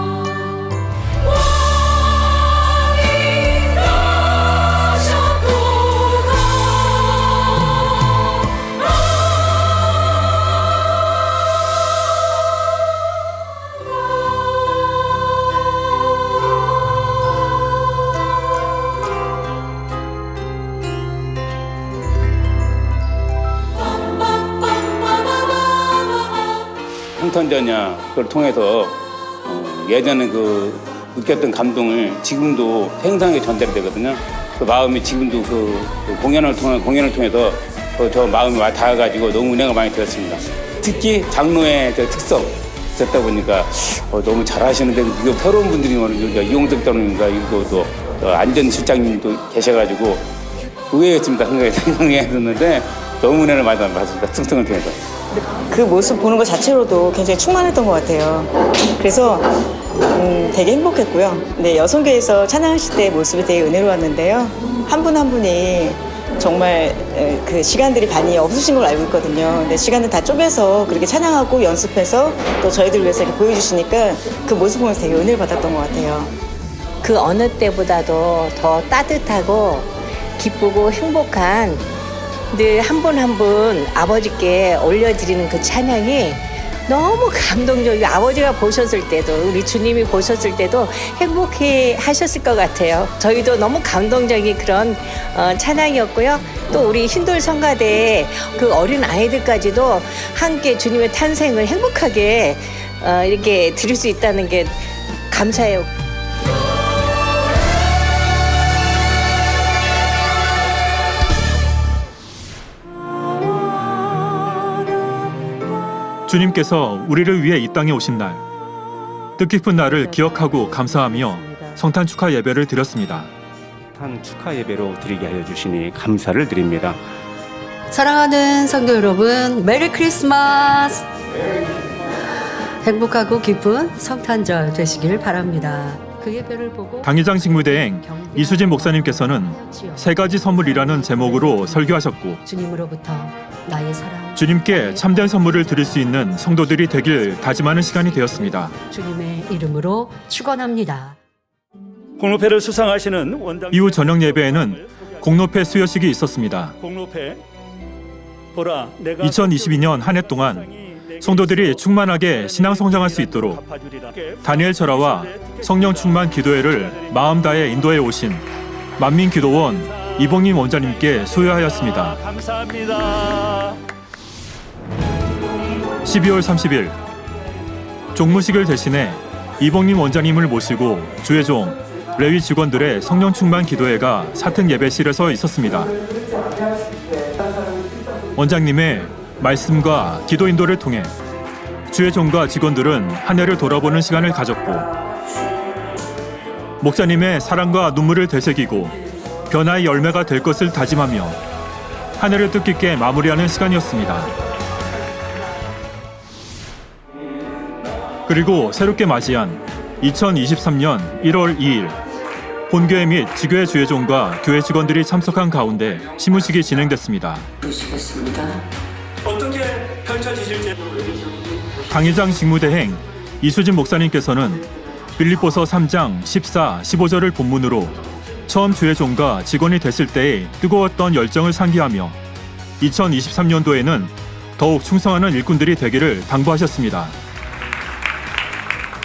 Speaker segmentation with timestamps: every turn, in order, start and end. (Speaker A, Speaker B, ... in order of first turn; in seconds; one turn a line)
Speaker A: 27.2-50.3
Speaker A: 50.9-55.0
Speaker B: 55.7-76.3
Speaker C: 77.0-81.9
Speaker C: 82.5-105.9
Speaker D: 116.3-118.4
Speaker D: 119.4-123.3
Speaker E: 119.8-121.8
Speaker F: 124.0-127.0
Speaker E: 127.9-131.1
Speaker E: 132.8-151.2
Speaker D: 137.0-142.4
Speaker D: 144.3-148.8
Speaker G: 152.2-154.8
Speaker D: 153.7-156.8
Speaker G: 156.8-157.4
Speaker G: 158.6-159.7
Speaker D: 159.2-163.6
Speaker G: 161.2-161.8
Speaker G: 162.5-166.1
Speaker D: 164.4-168.4
Speaker D: 169.0-172.2
Speaker G: 172.3-173.7
Speaker D: 176.1-177.0
Speaker D: 178.2-185.9
Speaker D: 188.4-191.1
Speaker D: 191.9-194.9
Speaker D: 196.8-199.0
Speaker D: 199.5-201.4
Speaker D: 202.2-204.3
Speaker D: 208.3-212.0
Speaker D: 212.7-217.5
Speaker G: 219.3-220.7
Speaker D: 221.9-224.7
Speaker D: 225.2-232.2
Speaker D: 232.8-237.2